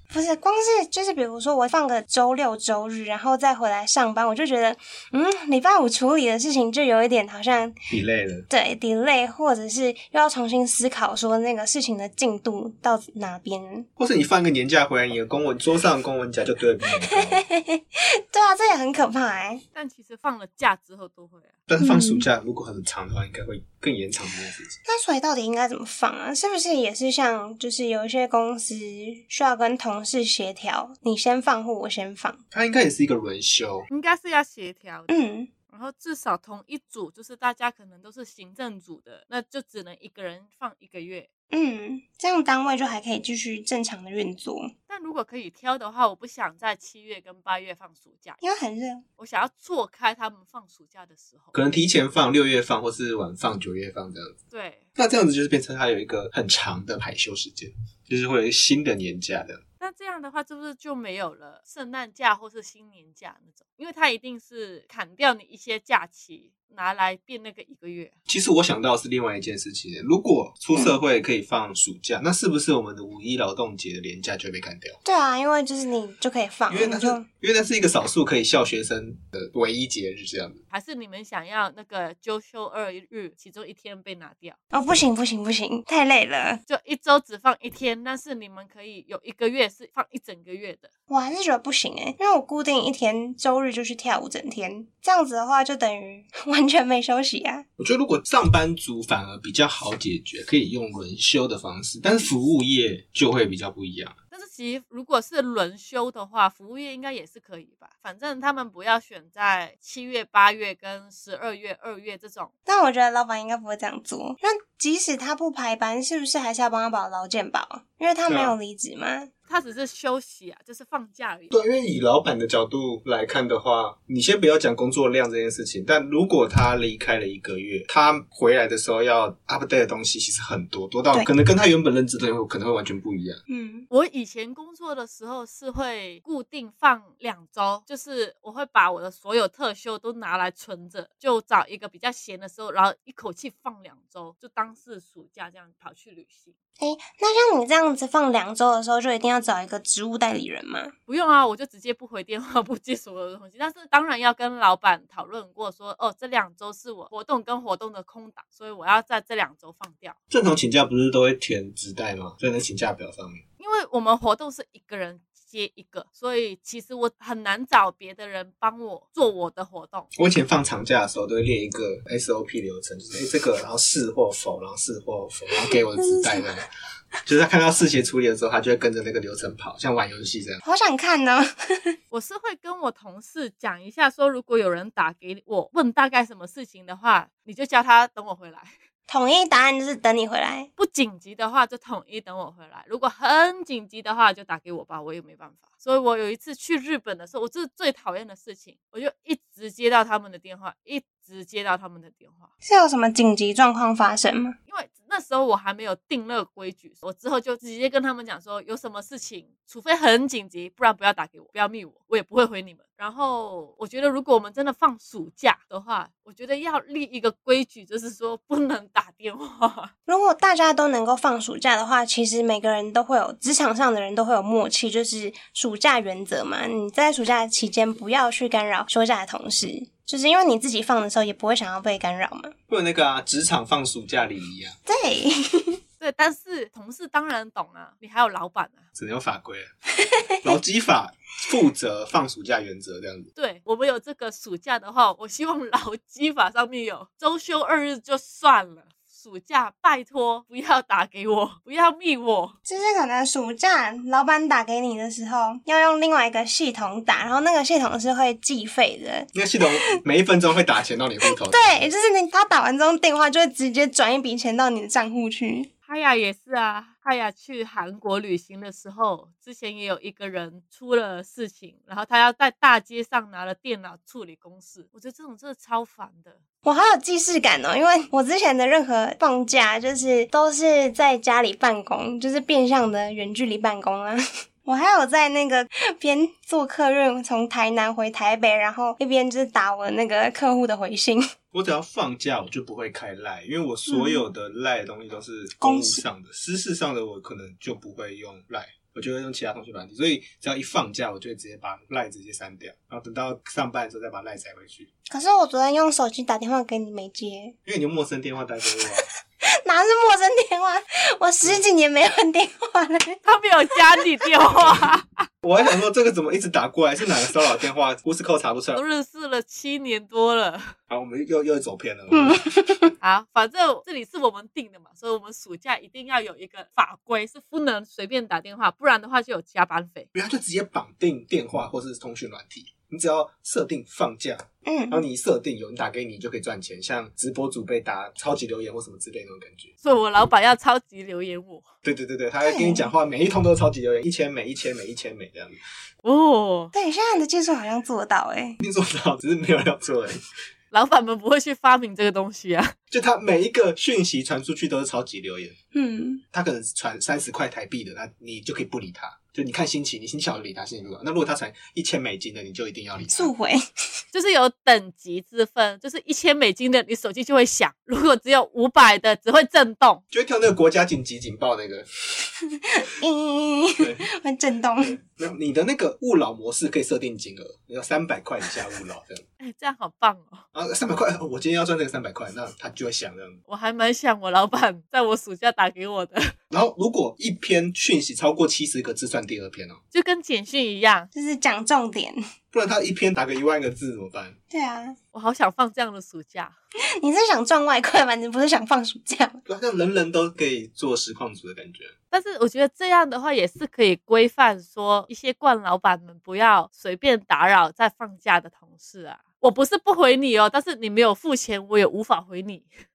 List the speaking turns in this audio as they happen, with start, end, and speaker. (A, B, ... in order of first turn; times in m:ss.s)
0:00.1-0:07.8 A
0:07.9-0:08.5 B
0:08.5-0:13.9 A
0:14.0-0:17.4 B
0:17.1-0:19.6 A
0:19.7-0:21.6 C
0:21.7-0:24.8 B
0:21.8-0:22.2 A
0:24.8-0:32.4 A
0:32.5-0:33.9 B
0:33.9-0:35.1 C
0:35.1-0:35.5 A
0:35.7-0:41.3 C
0:41.5-0:44.7 A
0:44.9-0:48.4 C
0:48.4-0:49.0 A
0:49.2-0:51.5 C
0:51.5-0:54.4 B
0:54.5-0:54.8 C
0:55.0-0:59.6 B
0:59.8-1:08.1 C
1:08.3-1:15.0 B
1:15.0-1:17.2 A
1:16.7-1:20.6 B
1:20.7-1:24.6 C
1:24.7-1:26.6 A
1:26.7-1:30.9 C
1:31.1-1:37.6 A
1:37.8-1:44.2 B
1:44.3-1:52.5 C
1:52.6-1:59.3 A
1:58.3-1:58.6 B
1:59.5-2:01.5 C
2:01.5-2:13.4 B
2:13.5-2:13.9 A
2:13.9-2:26.5 C
2:26.8-2:30.9 A
2:31.1-2:40.2 C
2:40.3-2:43.4 B
2:43.6-2:50.1 C
2:50.2-2:56.6 B
2:55.6-2:56.5 A
2:57.2-3:00.6 B
3:00.6-3:01.9 A
3:02.1-3:08.8 C
3:09.1-3:10.7 A
3:10.8-3:22.5 C
3:22.6-3:24.6 A
3:24.7-3:39.9 C
3:40.1-3:52.5 A
3:52.7-3:54.8 B
3:54.9-3:55.8 A
3:56.0-3:58.8 C
3:58.9-3:59.7 B
4:00.0-4:00.5 A
4:00.4-4:03.3 B
4:03.4-4:12.5 C
4:12.6-4:19.3 A
4:19.3-4:21.9 B
4:21.4-4:25.7 A
4:25.9-4:36.4 C
4:36.6-4:51.2 A
4:51.5-5:04.9 B
4:53.9-4:54.3 A
4:55.6-4:56.0 A
5:05.1-5:07.6 A
5:07.6-5:09.1 B
5:09.4-5:13.2 A
5:13.2-5:15.2 C
5:15.4-5:18.8 B
5:18.7-5:20.7 C
5:20.9-5:22.4 B
5:22.1-5:22.9 A
5:23.0-5:30.1 C
5:30.1-5:39.7 B
5:34.6-5:35.0 A
5:39.8-5:41.7 C
5:41.8-5:45.6 B
5:42.4-5:42.9 A
5:46.0-5:46.7 C
5:46.7-5:48.6 A
5:48.6-5:50.2 B
5:50.7-5:52.7 C
5:52.9-5:55.5 B
5:55.7-5:56.2 A
5:56.3-6:03.3 B
6:03.1-6:03.6 A
6:04.1-6:10.0 C
6:10.1-6:12.2 B
6:12.7-6:15.0 A
6:13.8-6:14.1 B
6:14.8-6:19.2 B
6:19.4-6:20.4 C
6:20.5-6:23.4 B
6:23.5-6:26.3 C
6:26.5-6:29.8 B
6:29.9-6:31.1 C
6:31.1-6:32.2 A
6:32.5-6:34.4 B
6:34.5-6:35.0 A
6:35.1-6:36.5 C
6:37.0-6:39.4 A
6:39.4-6:41.9 B
6:42.1-6:52.7 C